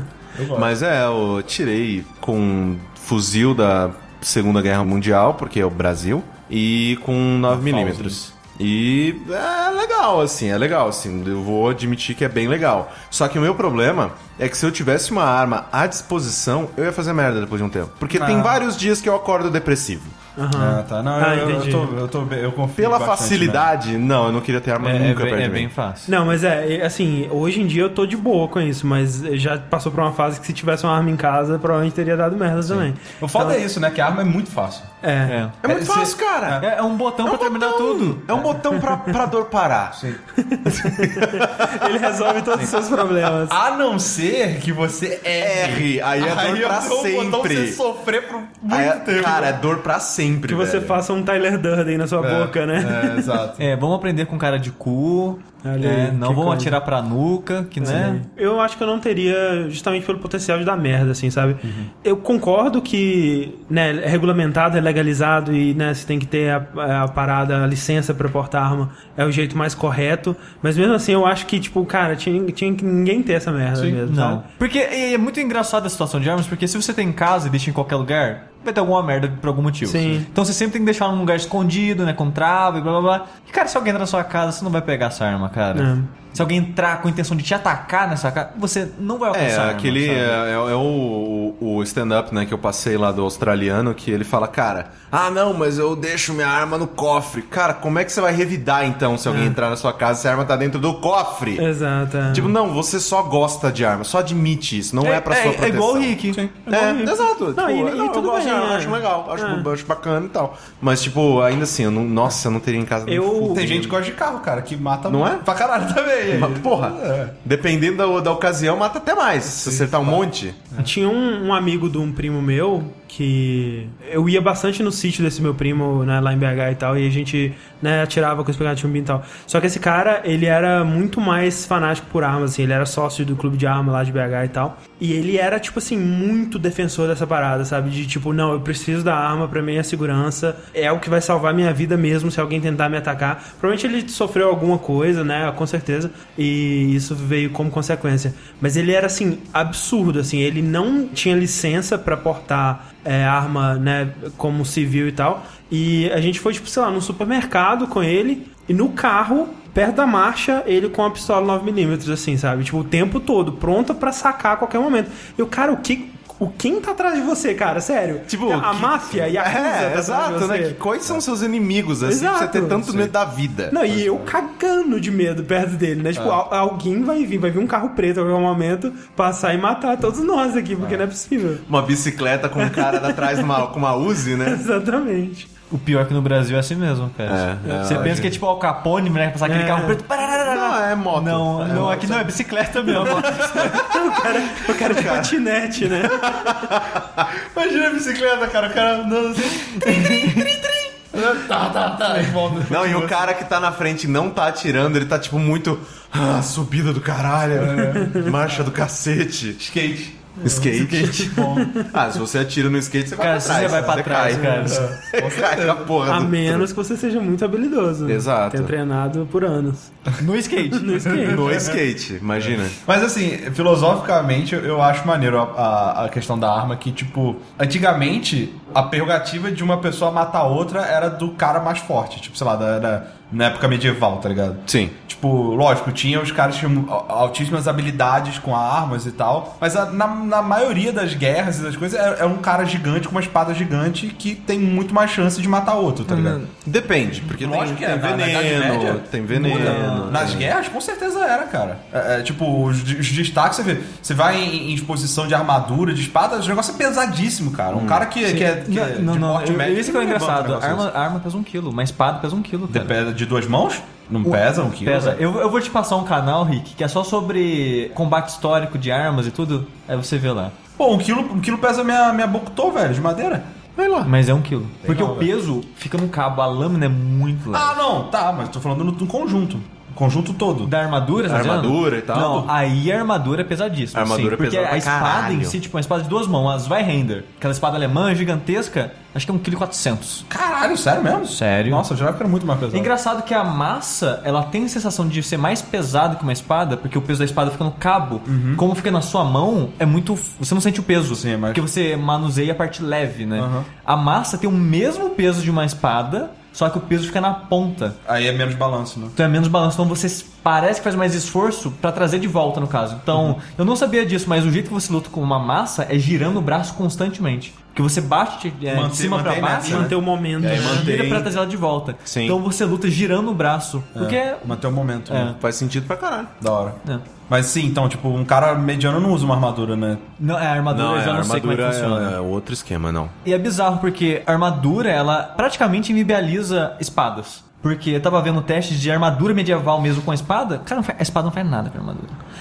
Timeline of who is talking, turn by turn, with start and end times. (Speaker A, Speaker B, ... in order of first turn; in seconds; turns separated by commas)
Speaker A: 0.3-0.7, Speaker B: 0.5-20.1, Speaker A: 7.5-8.2, Speaker A: 18.1-18.6, Speaker C: 20.4-22.0, Speaker A: 20.5-23.7, Speaker B: 22.8-25.7, Speaker D: 24.8-26.1, Speaker C: 26.1-33.6, Speaker A: 32.7-34.9, Speaker C: 35.0-35.4, Speaker D: 35.3-35.6, Speaker B: 35.6-36.6, Speaker A: 35.6-36.7, Speaker D: 36.6-38.5, Speaker B: 37.2-40.0, Speaker A: 40.0-40.2, Speaker C: 40.4-43.6, Speaker B: 40.8-41.8, Speaker A: 43.5-49.6, Speaker B: 45.4-47.8, Speaker B: 48.7-51.0, Speaker C: 50.5-53.4, Speaker A: 52.2-53.7, Speaker D: 53.6-58.2, Speaker C: 55.6-56.8, Speaker C: 57.8-74.4, Speaker A: 57.8-58.2, Speaker A: 61.6-61.9, Speaker D: 73.8-90.4, Speaker C: 79.8-80.3, Speaker C: 85.7-86.1, Speaker B: 89.3-101.7, Speaker C: 99.3-99.6, Speaker C: 101.6-102.5, Speaker B: 102.3-114.0, Speaker D: 105.0-106.5, Speaker A: 106.3-106.6, Speaker C: 106.7-109.7, Speaker C: 113.1-113.8, Speaker A: 113.5-117.3, Speaker B: 115.1-115.5, Speaker B: 116.3-120.6, Speaker A: 119.4-120.9, Speaker C: 120.8-170.8, Speaker B: 168.3-173.8, Speaker C: 172.0-173.1, Speaker C: 173.7-181.6, Speaker A: 173.9-174.3, Speaker B: 181.7-184.6, Speaker C: 182.6-183.5, Speaker C: 184.4-185.5, Speaker D: 185.7-193.9, Speaker B: 187.3-188.4, Speaker C: 187.7-188.0, Speaker A: 188.0-188.4, Speaker C: 189.5-190.0, Speaker B: 190.4-192.3, Speaker A: 191.6-192.2, Speaker A: 192.9-194.1, Speaker C: 193.6-196.8, Speaker B: 194.9-195.3, Speaker B: 196.6-197.3, Speaker A: 197.3-203.4, Speaker D: 199.8-200.7, Speaker B: 202.7-209.6, Speaker A: 207.5-208.3, Speaker C: 207.9-208.3, Speaker A: 209.6-211.8, Speaker B: 210.4-216.7, Speaker C: 211.0-211.9, Speaker D: 213.2-214.9, Speaker A: 213.5-216.0, Speaker C: 216.1-219.9, Speaker B: 218.1-218.7, Speaker D: 220.2-221.1, Speaker C: 220.7-221.7, Speaker A: 221.1-221.8, Speaker B: 221.2-222.8, Speaker A: 222.4-246.4, Speaker B: 234.7-234.9, Speaker D: 246.1-246.5, Speaker B: 246.7-250.5, Speaker A: 247.3-260.9, Speaker D: 249.3-250.3, Speaker B: 257.7-258.1, Speaker D: 258.2-262.9, Speaker A: 262.7-265.2, Speaker D: 264.2-270.6, Speaker A: 270.8-273.5, Speaker B: 273.8-274.1, Speaker D: 274.1-277.8, Speaker A: 274.9-275.3, Speaker A: 277.5-280.7, Speaker D: 280.6-290.2, Speaker B: 281.2-282.5, Speaker B: 283.9-285.6, Speaker A: 290.3-292.9, Speaker D: 291.3-291.9, Speaker D: 292.7-308.0, Speaker A: 298.3-298.7, Speaker A: 301.1-301.6, Speaker A: 303.4-303.7, Speaker A: 308.1-309.1, Speaker D: 309.2-325.4, Speaker A: 318.7-319.9, Speaker C: 319.6-321.0, Speaker B: 320.4-321.3, Speaker B: 322.1-322.4, Speaker A: 323.9-325.4, Speaker B: 325.4-326.3, Speaker A: 326.4-330.1, Speaker D: 330.2-332.2, Speaker B: 330.7-333.1, Speaker D: 333.2-342.2